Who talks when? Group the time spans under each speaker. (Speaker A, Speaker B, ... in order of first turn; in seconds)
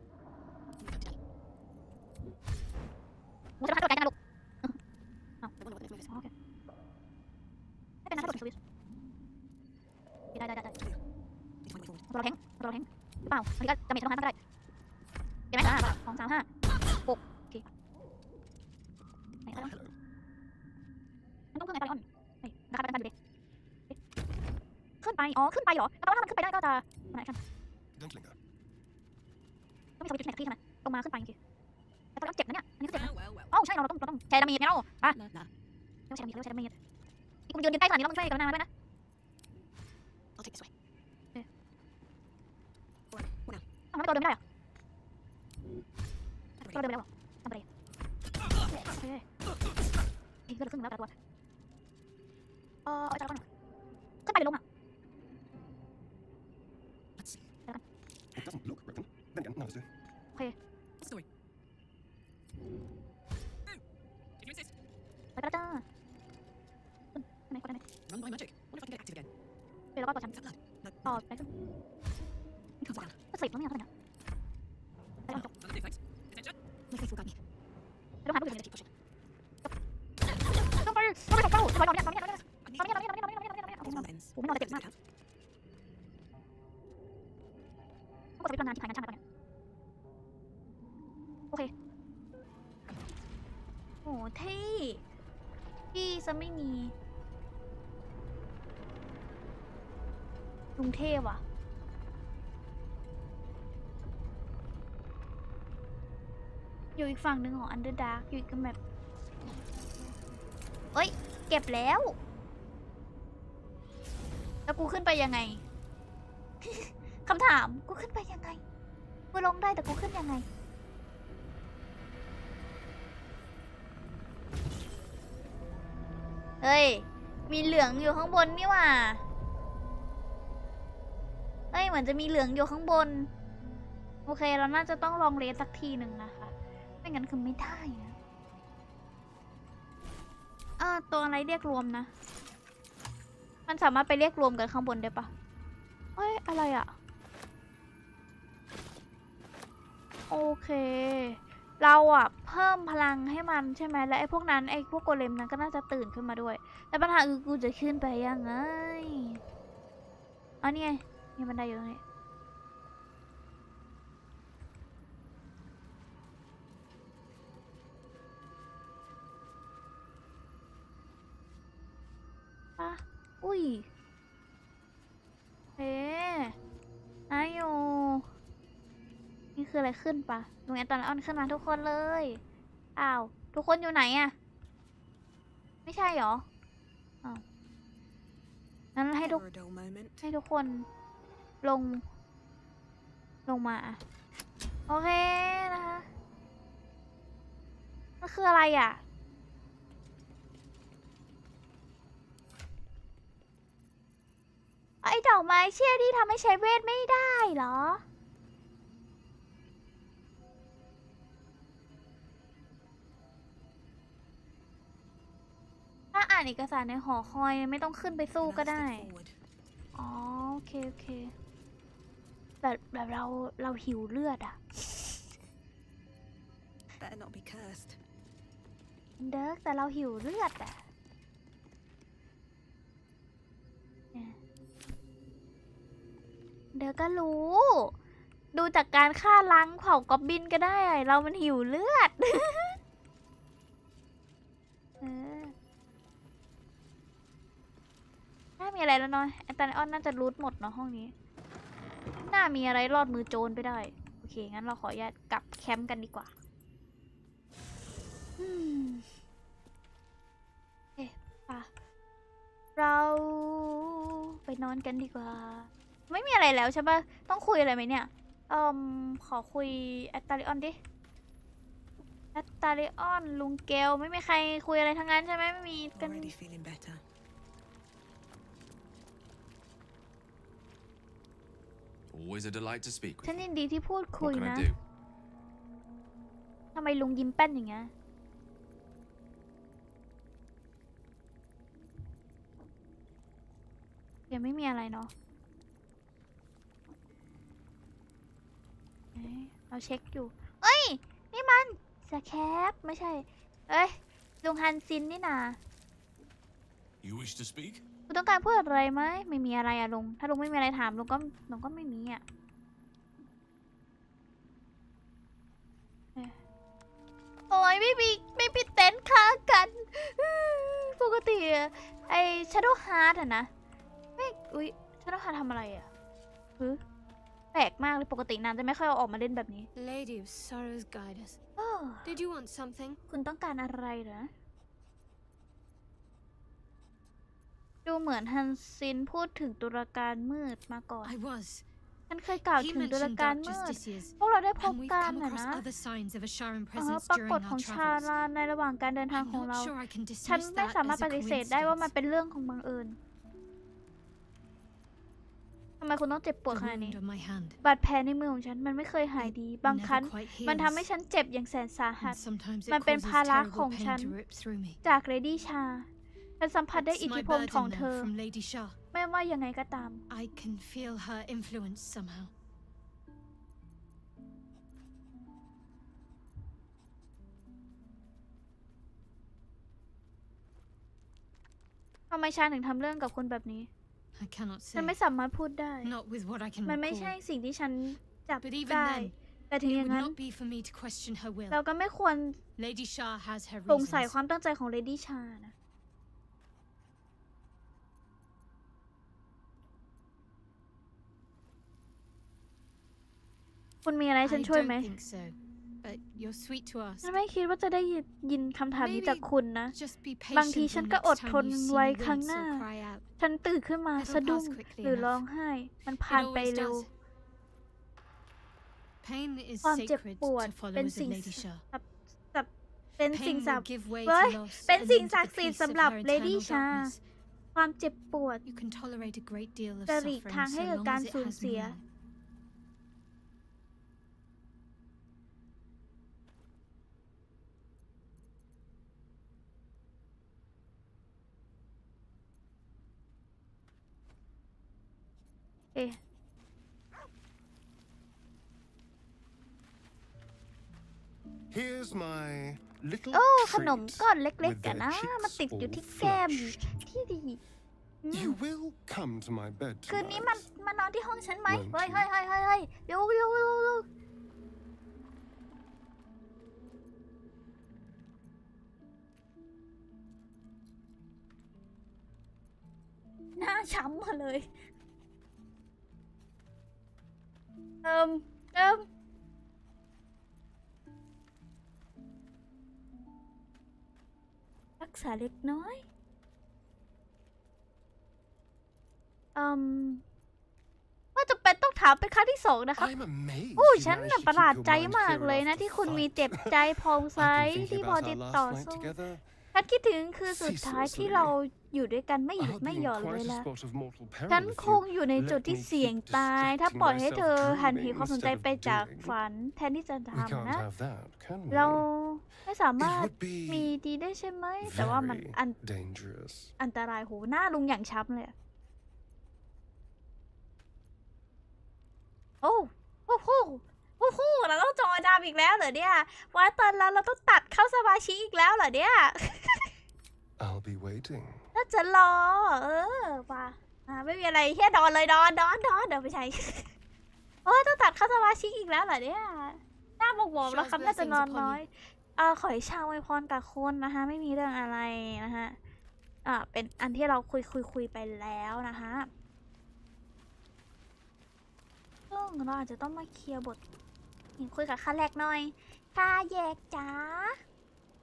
Speaker A: 3.6-4.8, 5.4-6.3, 8.1-8.6, 10.3-10.7, 12.1-14.3, 15.5-16.5, 17.1-17.6, 19.5-19.8, 21.5-23.1, 25.0-27.4, 30.0-31.4, 32.1-35.2, 36.1-36.7, 37.5-38.7, 43.9-44.4, 46.6-47.6, 48.6-49.2, 50.5-51.1, 52.9-53.4, 54.2-54.6, 65.4-65.8, 67.1-67.8, 70.0-70.4, 71.0-71.5, 73.2-73.9, 78.2-78.7, 80.5-84.8, 88.4-89.2, 94.0-95.0, 95.9-96.9, 100.8-101.4, 107.0-108.8, 110.9-112.2, 114.7-115.6, 116.6-118.6, 119.3-120.5, 126.6-129.2, 131.7-133.3, 134.2-136.5, 137.0-138.1, 140.8-142.1, 143.7-145.3, 146.2-146.9, 150.3-159.4, 160.6-162.0, 172.8-173.8, 175.8-176.5, 177.3-178.2, 179.6-182.4, 182.9-184.3, 185.8-186.4, 188.9-189.4, 190.2-190.9, 191.6-192.0, 193.5-194.0, 194.9-196.1, 198.2-199.0, 205.0-208.0, 216.1-219.1, 219.9-221.3, 222.6-225.2, 229.2-230.8, 236.7-237.9, 238.5-242.8, 245.0-245.5, 248.6-251.1, 252.3-256.3, 258.4-259.1, 261.0-261.7, 262.8-270.8, 272.3-276.3, 283.2-284.7, 286.7-287.9, 294.3-295.1, 299.1-305.6, 308.1-312.2, 317.5-323.5, 324.2-325.9, 327.5-329.7, 331.6-332.1, 333.1-334.3, 337.8-341.1, 342.1-345.6, 346.8-353.0, 355.8-357.0, 357.6-364.1, 364.8-365.9, 366.4-368.1, 368.9-370.0, 382.1-383.7, 384.7-385.9, 386.6-390.1, 391.5-392.4, 393.7-395.5, 403.8-404.9, 407.0-409.7, 410.3-412.6, 413.2-416.9, 419.6-422.5, 423.0-426.9, 427.5-428.4, 429.9-431.8, 453.1-457.4, 458.0-458.4, 459.9-463.8, 473.4-474.5, 477.8-478.9, 484.8-485.8, 489.3-490.0, 491.1-492.9, 493.6-498.9, 499.5-503.4, 504.3-510.6, 511.5-515.6, 516.6-518.3, 522.4-529.7, 531.5-536.7, 537.4-545.5, 546.2-549.1, 552.1-553.6, 554.4-557.4
Speaker B: 19.5-19.9, 27.9-28.4, 58.4-59.9, 451.5-456.7, 458.1-460.5, 461.5-462.1, 492.8-499.2, 500.3-501.3, 502.4-509.2, 510.1-511.9, 512.8-513.7, 514.6-516.5, 530.4-531.4
Speaker C: 68.2-69.2, 77.0-77.3, 329.8-331.4, 332.0-333.0, 341.0-341.6, 342.5-348.1, 349.1-351.9, 356.5-357.6, 359.2-360.8, 362.0-364.8, 366.7-368.8, 370.1-372.3, 384.1-385.0, 385.8-387.2, 388.4-391.6, 392.6-394.1, 404.2-407.1, 408.8-413.0, 413.9-415.2, 416.1-416.9, 419.0-421.6, 423.1-427.0, 428.4-431.8, 540.4-541.6
Speaker D: 189.2-190.2, 218.4-219.3, 227.0-227.9, 275.9-277.0
Speaker E: 282.1-283.5, 284.2-284.8, 307.0-307.8